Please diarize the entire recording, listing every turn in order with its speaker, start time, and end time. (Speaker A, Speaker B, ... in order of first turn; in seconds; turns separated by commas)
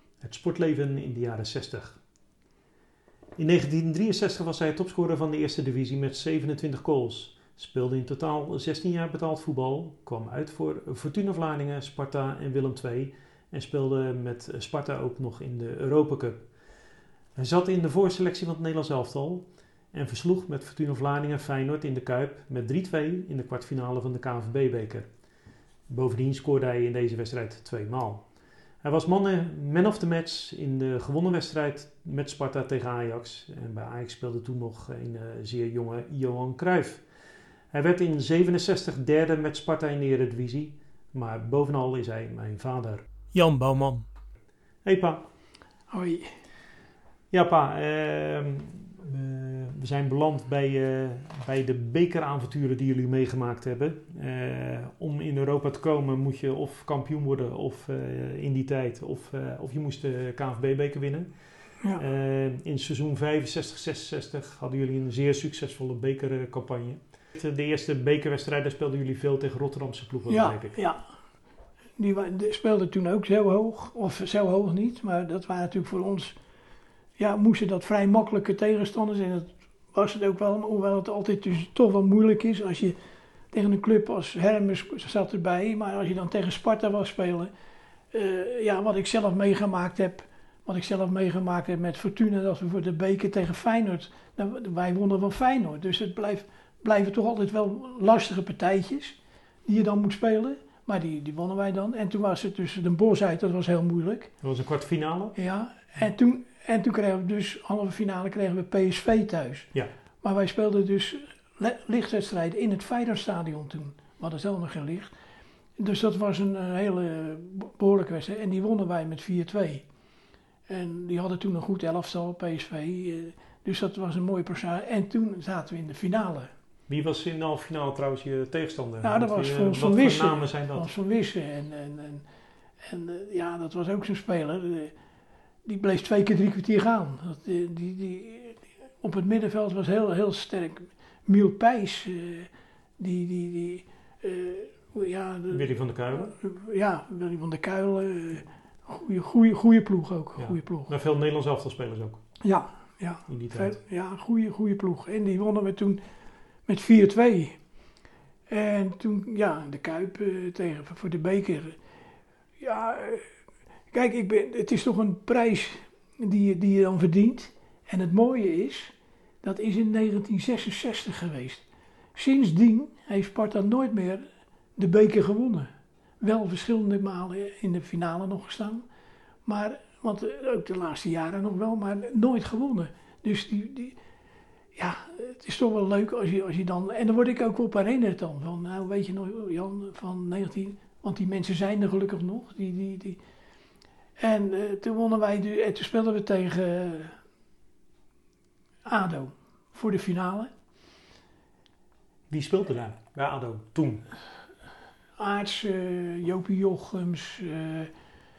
Speaker A: 0.2-2.0, Speaker A: 3.4-16.6, Speaker A: 17.3-25.1, Speaker A: 25.9-37.1, Speaker A: 37.7-44.0, Speaker A: 44.8-45.2, Speaker B: 45.9-46.3, Speaker A: 47.3-70.8, Speaker B: 70.3-71.1, Speaker B: 72.0-76.4, Speaker B: 77.2-83.0, Speaker B: 83.5-87.5, Speaker B: 88.1-104.3, Speaker A: 104.4-105.4, Speaker B: 105.3-115.1, Speaker B: 115.8-119.9, Speaker B: 120.7-126.5, Speaker A: 126.9-130.9, Speaker B: 129.0-132.2, Speaker B: 132.8-134.9, Speaker B: 135.6-150.9, Speaker A: 145.5-146.3, Speaker A: 150.4-152.2, Speaker B: 152.4-156.0, Speaker A: 153.3-153.8, Speaker B: 156.7-157.6, Speaker B: 158.5-161.8, Speaker B: 162.6-163.3, Speaker B: 163.9-174.2, Speaker B: 174.8-178.8, Speaker B: 179.4-184.0, Speaker B: 184.8-193.2, Speaker B: 194.2-197.2, Speaker B: 198.8-200.5, Speaker A: 202.3-204.1, Speaker B: 205.2-207.9